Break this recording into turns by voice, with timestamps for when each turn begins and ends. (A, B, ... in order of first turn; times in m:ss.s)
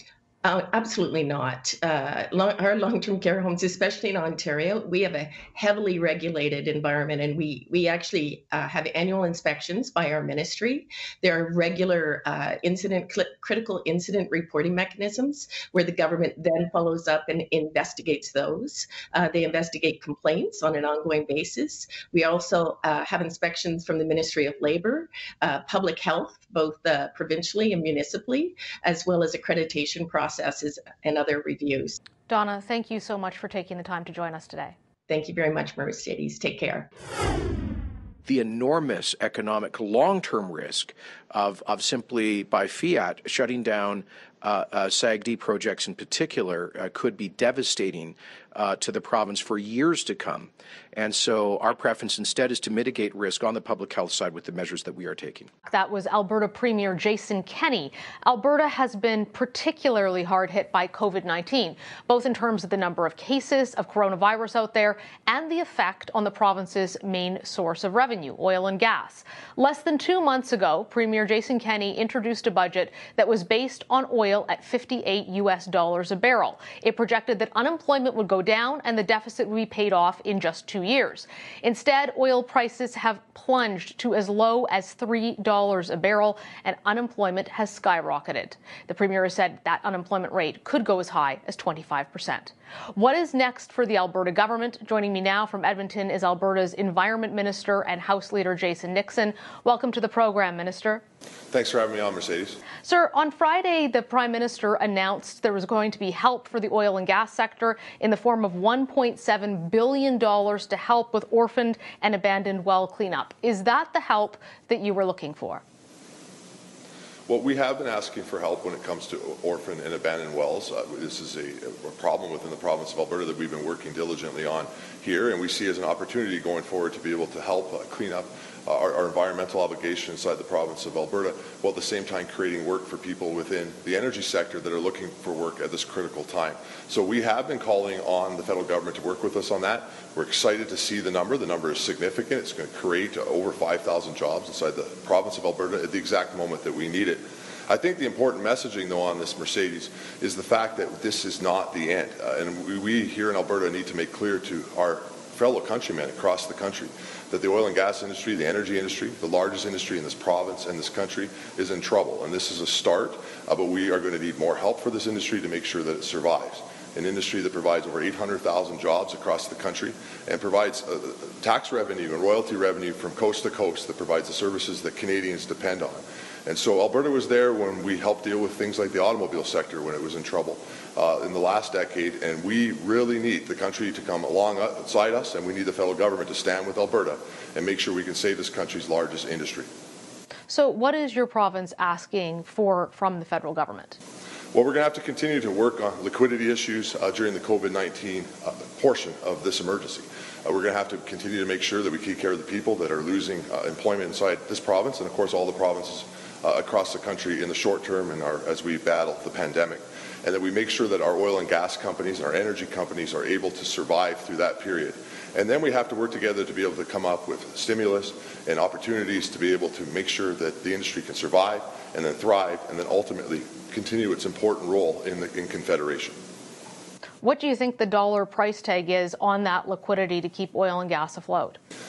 0:00.4-0:32.0 A
0:32.3-0:34.8 B
0:35.1-0:36.9 A
0:38.3-0:55.5 C
0:55.7-1:41.0 B
1:41.5-1:42.6 D
1:42.8-1:55.6 B
1:57.3-3:09.7 D
3:10.5-3:14.0 B
3:14.5-3:46.2 D
3:47.2-3:51.6 B